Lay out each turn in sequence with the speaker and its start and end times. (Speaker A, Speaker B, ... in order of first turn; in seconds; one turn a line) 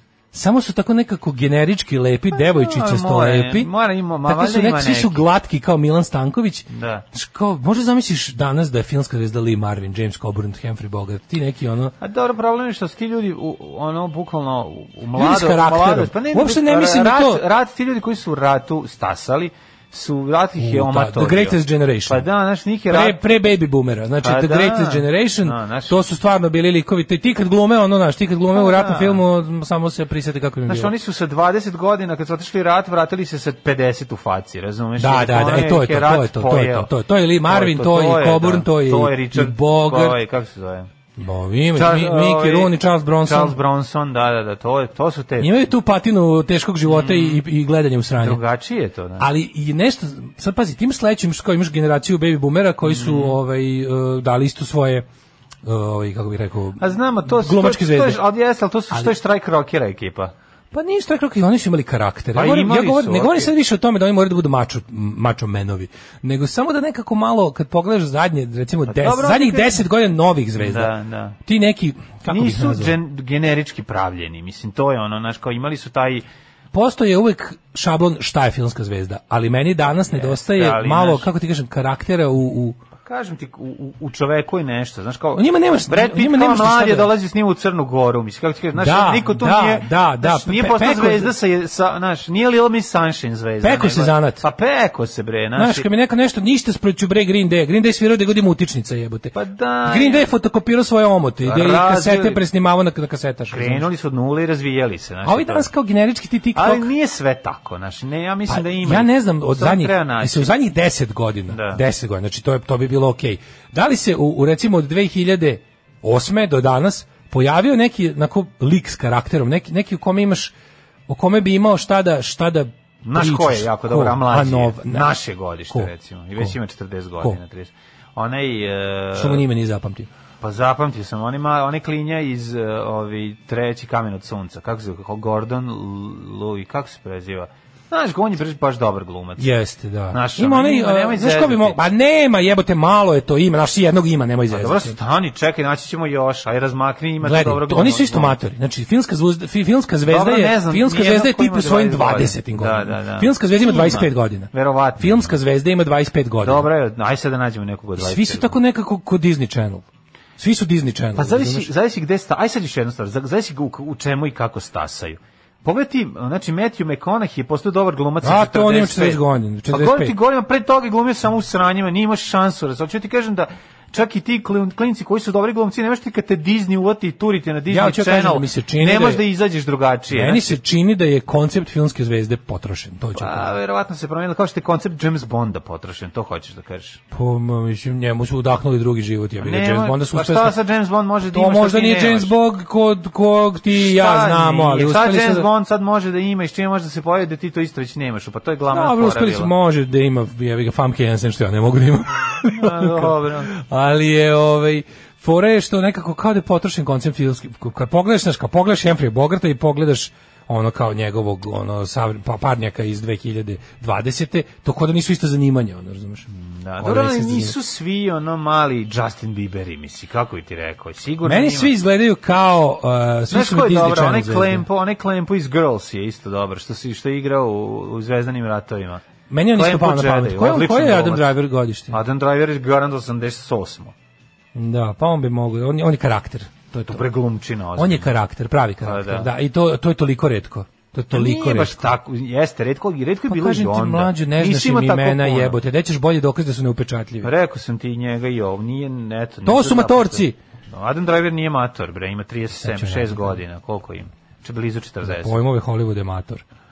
Speaker A: 0.3-3.7
Speaker B: 2.5-5.2
Speaker A: 4.3-11.9
Speaker B: 6.7-7.0
Speaker B: 12.0-23.2
Speaker A: 15.2-17.4
Speaker A: 20.6-22.2
Speaker A: 22.9-30.9
Speaker B: 24.2-26.0
Speaker B: 28.6-29.2
Speaker B: 30.7-36.9
Speaker A: 35.0-40.2
Speaker B: 37.4-40.9
Speaker A: 41.2-43.6
Speaker B: 41.8-45.7
Speaker A: 45.4-48.4
Speaker B: 46.9-47.4
Speaker B: 48.2-49.3
Speaker A: 49.2-55.1
Speaker B: 52.9-53.4
Speaker A: 55.6-58.2
Speaker B: 56.8-60.3
Speaker A: 60.7-73.0
Speaker B: 62.4-63.5
Speaker B: 68.9-69.8
Speaker B: 70.6-71.4
Speaker B: 72.3-76.2
Speaker A: 76.7-82.8
Speaker B: 80.1-81.3
Speaker B: 83.0-95.9
Speaker A: 85.3-87.1
Speaker A: 88.8-91.3
Speaker A: 93.6-94.5
Speaker A: 95.6-99.3
Speaker B: 99.3-100.3
Speaker A: 99.8-103.9
Speaker B: 101.4-102.4
Speaker B: 103.5-105.7
Speaker A: 105.2-106.9
Speaker B: 106.5-110.5
Speaker A: 108.5-120.5
Speaker B: 111.5-111.8
Speaker A: 121.1-125.2
Speaker B: 123.0-129.4
Speaker A: 125.7-126.5
Speaker A: 129.2-130.1
Speaker B: 130.4-139.5
Speaker A: 139.4-145.0
Speaker B: 140.1-141.8
Speaker B: 144.5-148.4
Speaker A: 147.2-156.7
Speaker B: 150.1-155.3
Speaker B: 156.4-158.6
Speaker A: 158.0-159.9
Speaker A: 160.4-161.7
Speaker B: 161.2-180.6
Speaker A: 168.2-170.2
Speaker A: 177.7-179.2
Speaker A: 180.1-183.5
Speaker B: 183.2-187.0
Speaker A: 187.1-190.6
Speaker B: 189.4-192.3
Speaker A: 191.3-195.5
Speaker B: 193.7-199.5
Speaker A: 198.7-216.3
Speaker B: 202.4-203.5
Speaker B: 216.3-221.7
Speaker A: 216.8-217.6
Speaker A: 221.2-224.7
Speaker B: 223.3-229.0
Speaker A: 229.3-232.0
Speaker B: 229.5-231.3
Speaker B: 231.9-233.9
Speaker A: 234.6-237.0
Speaker B: 236.9-238.1
Speaker A: 237.8-241.9
Speaker B: 238.8-239.3
Speaker B: 241.1-245.6
Speaker A: 243.3-247.3
Speaker B: 247.2-255.4
Speaker A: 249.4-250.4
Speaker A: 252.6-253.4
Speaker A: 255.0-256.4